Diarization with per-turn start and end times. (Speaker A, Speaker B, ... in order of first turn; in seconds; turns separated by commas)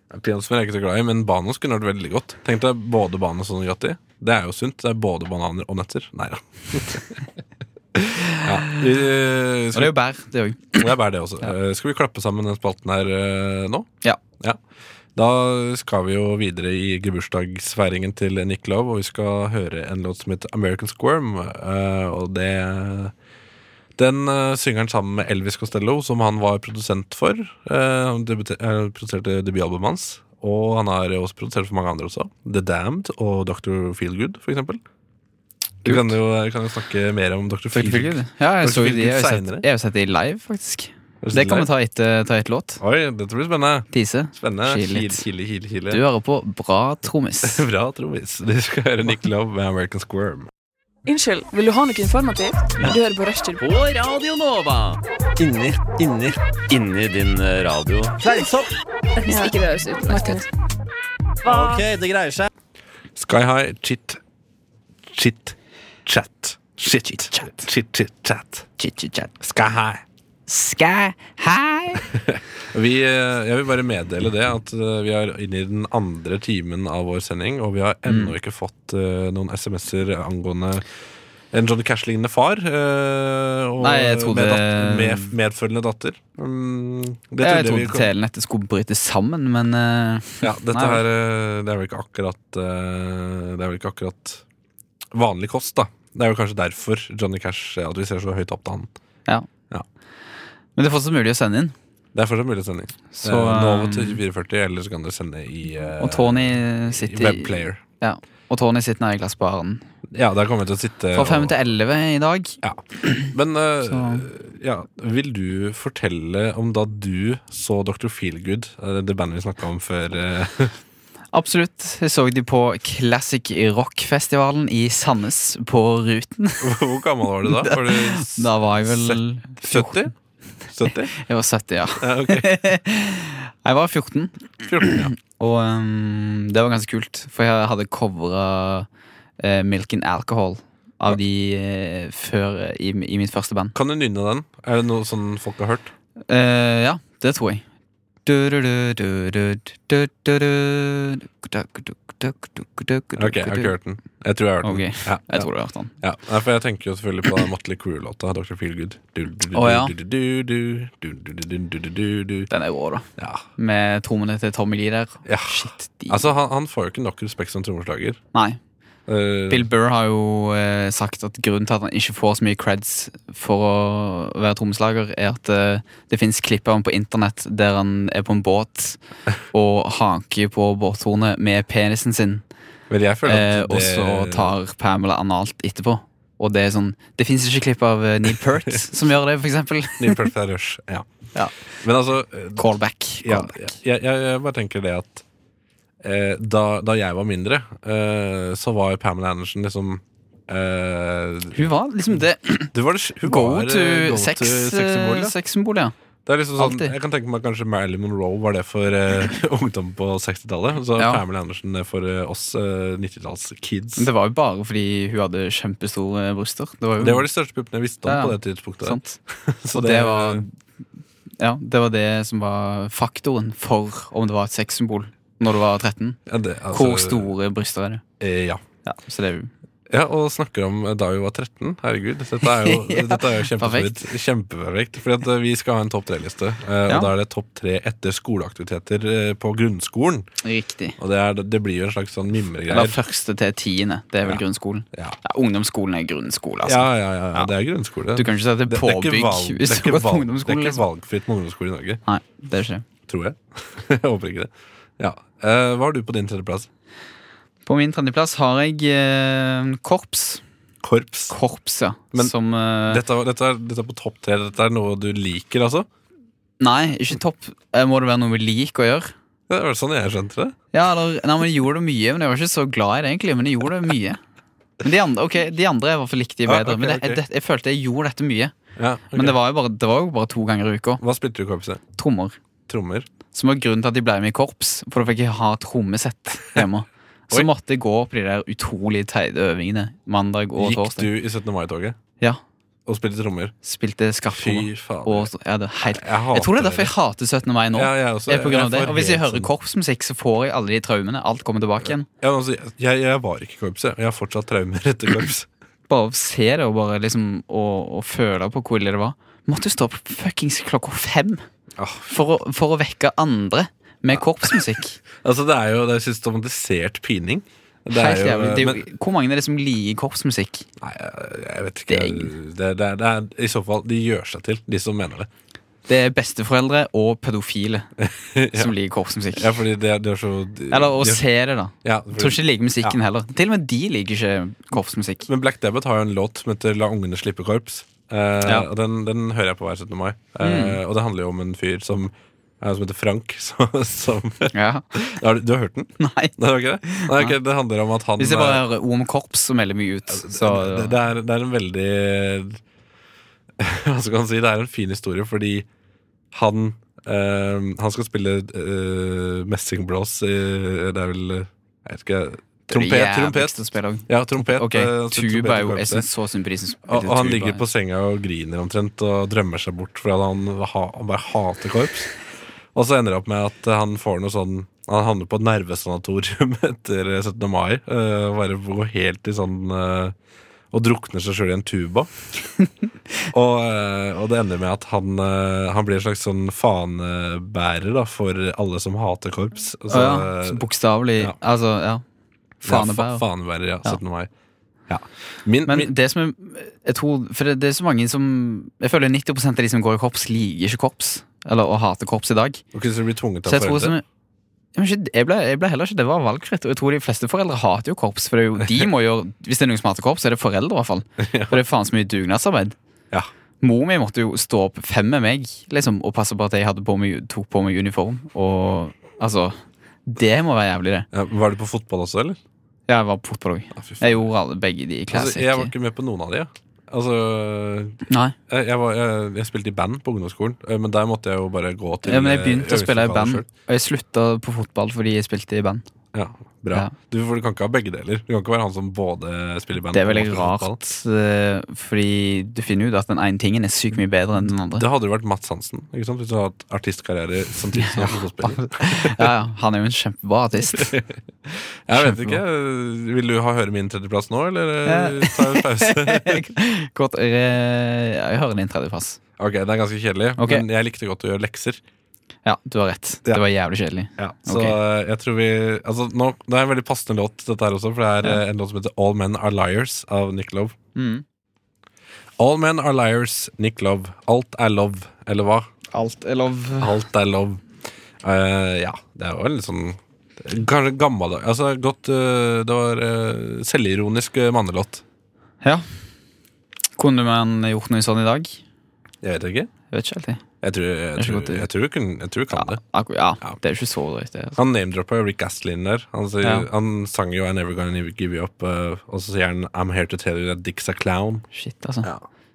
Speaker A: 0.1-7.2, Speaker A: 8.0-9.9, Speaker B: 8.4-8.8, Speaker B: 9.7-10.9, Speaker A: 10.8-13.9, Speaker A: 15.2-23.1, Speaker A: 24.0-34.8, Speaker B: 35.9-36.1, Speaker A: 35.9-39.7, Speaker B: 37.7-42.8, Speaker A: 41.2-41.7, Speaker A: 42.8-46.0, Speaker B: 43.9-45.3, Speaker B: 45.9-47.6, Speaker A: 47.4-50.5, Speaker C: 51.1-53.6, Speaker D: 53.6-58.7, Speaker C: 59.2-60.5, Speaker D: 61.5-62.5, Speaker A: 63.2-64.2, Speaker A: 65.1-68.7, Speaker B: 66.9-67.7, Speaker B: 68.8-69.3, Speaker A: 69.4-70.0, Speaker B: 70.5-72.0, Speaker A: 72.0-80.8, Speaker B: 78.1-78.3, Speaker A: 81.5-88.1, Speaker B: 83.8-85.3, Speaker B: 87.4-91.0, Speaker A: 90.4-94.4, Speaker A: 95.1-98.9, Speaker B: 100.8-101.7, Speaker A: 102.1-107.8, Speaker B: 103.2-104.2, Speaker B: 106.0-109.8, Speaker A: 110.1-111.5, Speaker B: 111.1-113.3, Speaker A: 112.6-120.8, Speaker B: 113.9-114.2, Speaker B: 121.3-126.7, Speaker A: 126.6-130.1, Speaker B: 127.5-130.1, Speaker A: 130.7-131.1, Speaker B: 130.9-138.9, Speaker A: 132.0-132.6, Speaker A: 134.6-135.1, Speaker B: 139.4-143.8, Speaker A: 143.7-145.9, Speaker B: 146.3-147.6, Speaker B: 148.2-153.7, Speaker A: 153.2-155.5, Speaker B: 154.6-155.9, Speaker A: 156.0-162.5, Speaker B: 159.5-159.9, Speaker B: 162.5-166.2, Speaker A: 163.2-163.4, Speaker A: 165.3-168.2, Speaker A: 169.1-169.7, Speaker B: 169.5-179.0, Speaker B: 179.5-182.4, Speaker A: 182.9-184.5, Speaker B: 183.3-190.3, Speaker A: 190.0-191.1, Speaker A: 191.8-192.6, Speaker B: 192.6-193.6, Speaker A: 193.2-195.2, Speaker A: 196.0-201.7, Speaker B: 201.6-205.9, Speaker A: 202.7-205.3, Speaker A: 206.3-214.1, Speaker B: 206.6-207.0, Speaker B: 211.0-211.2, Speaker B: 214.0-217.3, Speaker A: 217.0-220.4, Speaker B: 218.1-219.2, Speaker B: 219.7-220.5, Speaker B: 221.4-226.2, Speaker A: 226.3-227.3, Speaker B: 226.7-228.0, Speaker A: 228.2-228.6, Speaker B: 228.9-229.5, Speaker A: 229.9-240.3, Speaker B: 232.4-234.1, Speaker B: 240.4-241.0, Speaker A: 241.0-243.0, Speaker B: 242.7-247.5, Speaker A: 244.9-245.2, Speaker A: 246.7-252.0, Speaker B: 248.2-250.8, Speaker B: 252.1-252.8, Speaker A: 253.1-256.7, Speaker B: 257.7-260.4, Speaker A: 260.8-261.4, Speaker B: 261.3-263.0, Speaker A: 262.9-265.9, Speaker B: 266.6-269.1, Speaker A: 269.5-270.6, Speaker B: 270.7-274.2, Speaker B: 274.8-278.5, Speaker A: 276.4-277.2, Speaker A: 278.8-279.4, Speaker B: 279.1-281.0, Speaker A: 281.0-281.8, Speaker B: 282.0-282.4, Speaker A: 282.7-283.1, Speaker B: 283.3-291.1, Speaker A: 290.6-292.0, Speaker A: 292.9-293.6, Speaker B: 293.6-302.1, Speaker A: 294.3-295.3, Speaker A: 295.8-296.9, Speaker A: 297.7-299.5, Speaker A: 301.8-305.5, Speaker B: 305.9-311.4, Speaker A: 311.8-312.1, Speaker B: 312.1-315.0, Speaker A: 314.1-314.6, Speaker A: 315.2-318.8, Speaker B: 317.9-320.7, Speaker A: 320.8-325.3, Speaker B: 321.9-322.3, Speaker B: 325.9-327.9, Speaker A: 328.0-328.7, Speaker B: 328.5-329.6, Speaker A: 329.3-331.3, Speaker B: 330.7-335.3, Speaker A: 331.8-333.0, Speaker A: 335.3-348.6, Speaker B: 340.4-340.8, Speaker B: 344.5-345.0, Speaker B: 346.0-347.4, Speaker B: 348.2-351.0, Speaker A: 350.1-352.6, Speaker A: 353.6-355.7, Speaker A: 356.3-366.1, Speaker B: 362.7-367.6, Speaker A: 366.9-372.1, Speaker A: 372.7-380.1, Speaker A: 380.7-382.1, Speaker A: 383.3-390.6, Speaker B: 389.9-392.0, Speaker B: 392.6-393.3, Speaker A: 392.6-394.3, Speaker A: 394.9-395.9, Speaker B: 395.7-402.6, Speaker A: 402.7-404.0, Speaker B: 403.5-404.0, Speaker B: 404.8-412.8, Speaker A: 411.2-411.6, Speaker B: 413.6-421.1, Speaker A: 421.1-422.4, Speaker B: 422.9-425.7, Speaker A: 423.7-424.3, Speaker A: 425.1-433.5, Speaker B: 428.1-428.4, Speaker B: 432.0-435.8, Speaker A: 436.1-440.8, Speaker B: 439.9-444.9, Speaker A: 444.4-449.3, Speaker B: 447.7-451.0, Speaker A: 450.7-451.1, Speaker A: 451.9-456.5, Speaker B: 451.9-452.4, Speaker B: 454.9-459.2, Speaker A: 459.4-461.8, Speaker B: 460.4-460.6, Speaker B: 462.4-464.8, Speaker A: 464.2-470.8, Speaker B: 471.0-471.2, Speaker A: 472.4-475.7, Speaker B: 475.9-477.0, Speaker A: 476.8-477.6, Speaker A: 478.2-485.0, Speaker B: 487.0-488.6, Speaker A: 489.2-489.7, Speaker B: 489.9-490.4, Speaker A: 490.6-492.8, Speaker B: 491.2-491.7, Speaker B: 492.5-494.6, Speaker A: 494.6-501.5, Speaker B: 496.4-496.7, Speaker B: 501.5-502.1